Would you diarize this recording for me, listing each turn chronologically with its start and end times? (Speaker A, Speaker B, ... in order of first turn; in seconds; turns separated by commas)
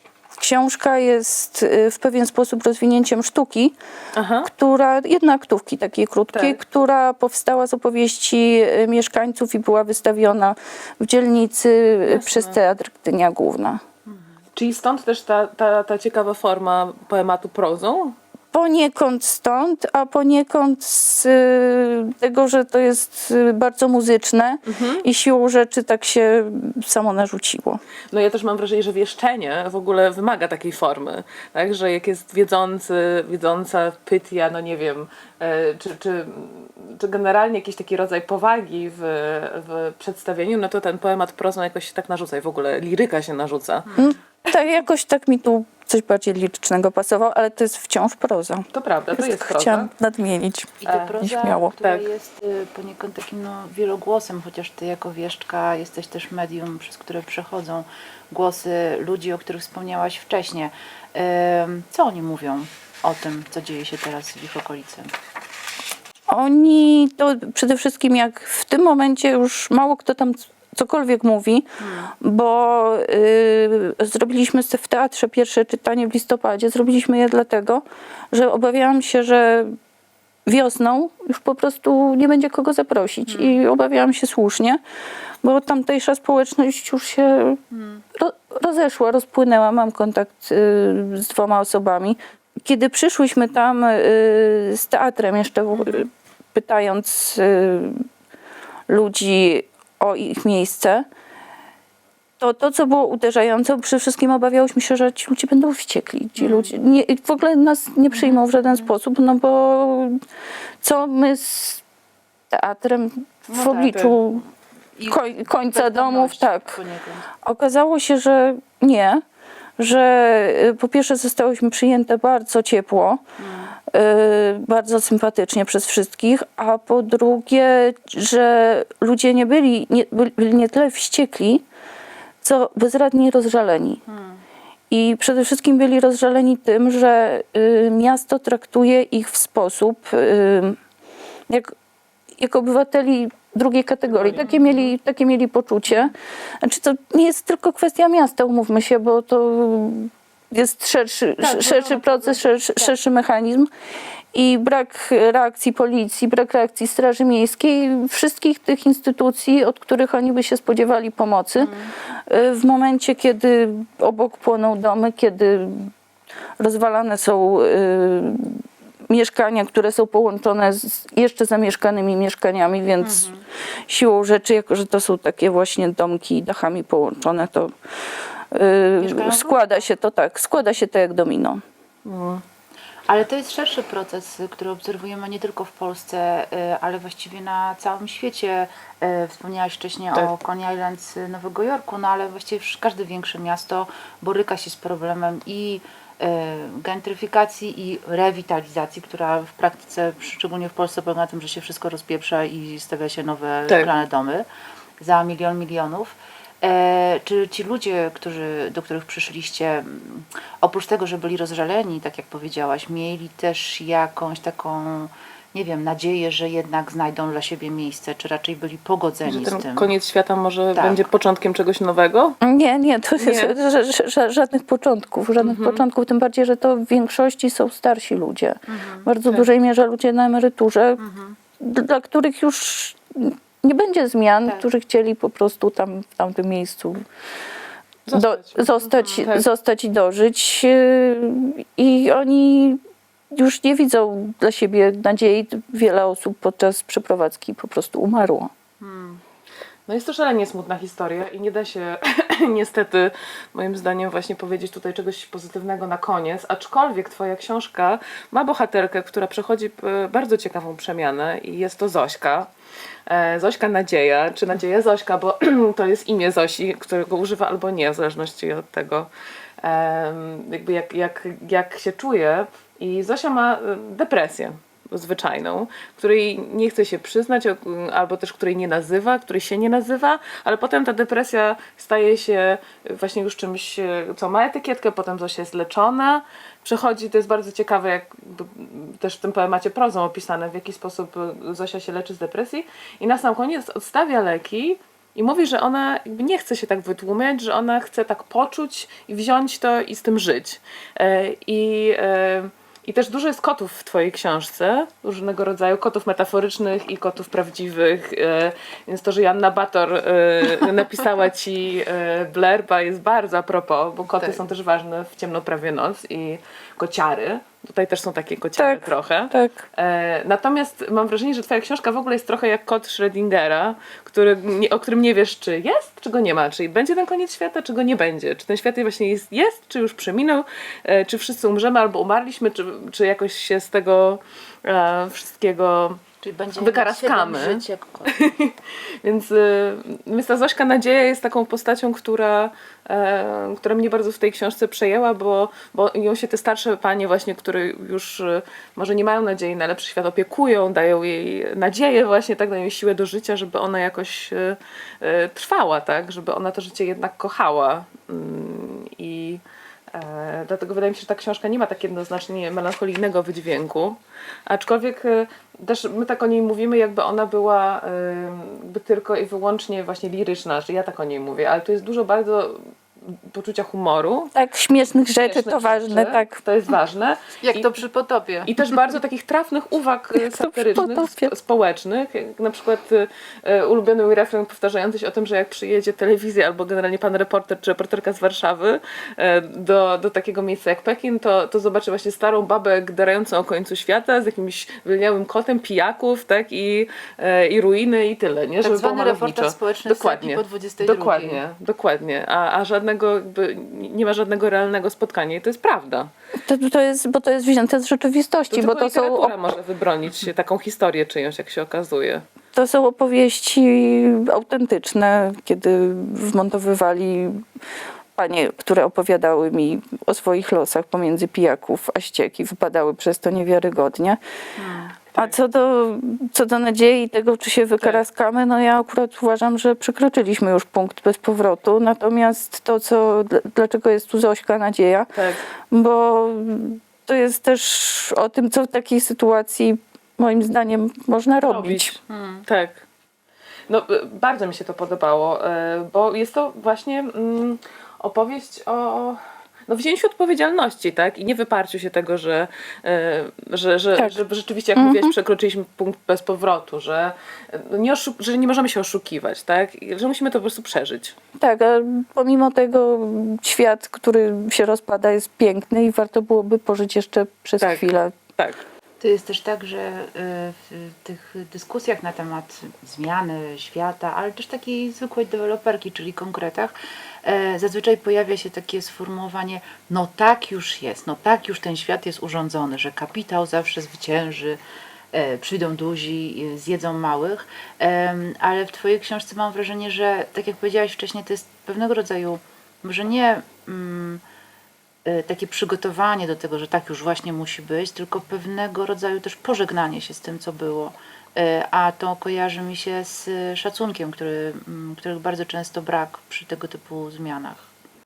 Speaker A: 0.3-3.7, Speaker B: 4.1-4.5, Speaker A: 4.4-13.8, Speaker B: 6.3-6.6, Speaker B: 12.1-12.6, Speaker C: 14.1-14.3, Speaker B: 14.5-18.1, Speaker A: 18.5-27.8, Speaker B: 24.7-25.0, Speaker B: 28.1-43.9, Speaker A: 44.0-51.7, Speaker B: 48.7-49.9, Speaker C: 50.8-65.1, Speaker B: 50.9-51.2, Speaker B: 51.8-52.1, Speaker A: 66.3-71.7, Speaker C: 71.8-72.1, Speaker A: 72.2-79.7, Speaker A: 80.5-84.8, Speaker C: 83.3-83.6, Speaker A: 85.4-87.6, Speaker C: 87.7-88.0, Speaker A: 88.1-98.0, Speaker A: 98.9-101.0, Speaker A: 102.4-110.2, Speaker C: 106.4-106.7, Speaker A: 110.8-111.8, Speaker A: 112.5-114.4, Speaker C: 113.5-114.1, Speaker B: 113.9-114.2, Speaker C: 115.0-117.3, Speaker A: 115.1-116.8, Speaker A: 117.4-119.2, Speaker A: 119.8-123.2, Speaker C: 123.4-123.7, Speaker A: 123.9-131.6, Speaker A: 132.4-134.0, Speaker C: 134.1-134.4, Speaker A: 134.9-140.8, Speaker A: 142.4-153.7, Speaker B: 144.1-144.9, Speaker B: 151.4-152.4, Speaker A: 154.3-161.7, Speaker C: 161.6-161.9, Speaker A: 162.3-165.9, Speaker A: 166.6-173.3, Speaker C: 173.0-173.4, Speaker A: 173.9-177.7, Speaker A: 178.5-181.6, Speaker C: 179.0-179.9, Speaker B: 182.0-182.4, Speaker C: 183.1-204.4, Speaker C: 205.0-219.9, Speaker B: 219.2-222.4, Speaker C: 220.7-221.0, Speaker A: 222.4-231.0, Speaker B: 223.2-223.6, Speaker B: 225.4-225.8, Speaker C: 228.7-229.1, Speaker C: 231.0-231.4, Speaker A: 231.6-237.0, Speaker B: 238.1-239.5, Speaker A: 238.1-242.8, Speaker A: 243.3-248.5, Speaker C: 248.8-249.2, Speaker B: 249.9-262.5, Speaker B: 263.1-269.1, Speaker B: 269.6-336.0, Speaker A: 318.6-319.6, Speaker C: 336.2-338.1, Speaker B: 336.6-359.4, Speaker B: 359.9-372.6, Speaker B: 373.3-374.3, Speaker A: 374.3-376.4, Speaker B: 375.2-377.7, Speaker C: 377.4-378.5, Speaker B: 378.4-406.1, Speaker A: 380.1-381.3, Speaker C: 398.6-401.4, Speaker A: 406.4-409.3, Speaker B: 408.5-412.2, Speaker A: 412.5-417.4, Speaker A: 418.1-424.2, Speaker C: 424.6-425.0, Speaker A: 425.1-435.1, Speaker B: 427.8-428.0, Speaker B: 435.1-435.4, Speaker A: 435.7-441.9, Speaker B: 441.4-442.8, Speaker C: 442.1-442.4, Speaker B: 443.7-461.1, Speaker A: 454.8-455.1, Speaker A: 461.4-468.1, Speaker B: 467.6-468.6, Speaker C: 469.0-476.7, Speaker C: 477.2-484.6, Speaker C: 485.1-494.2, Speaker C: 495.0-507.7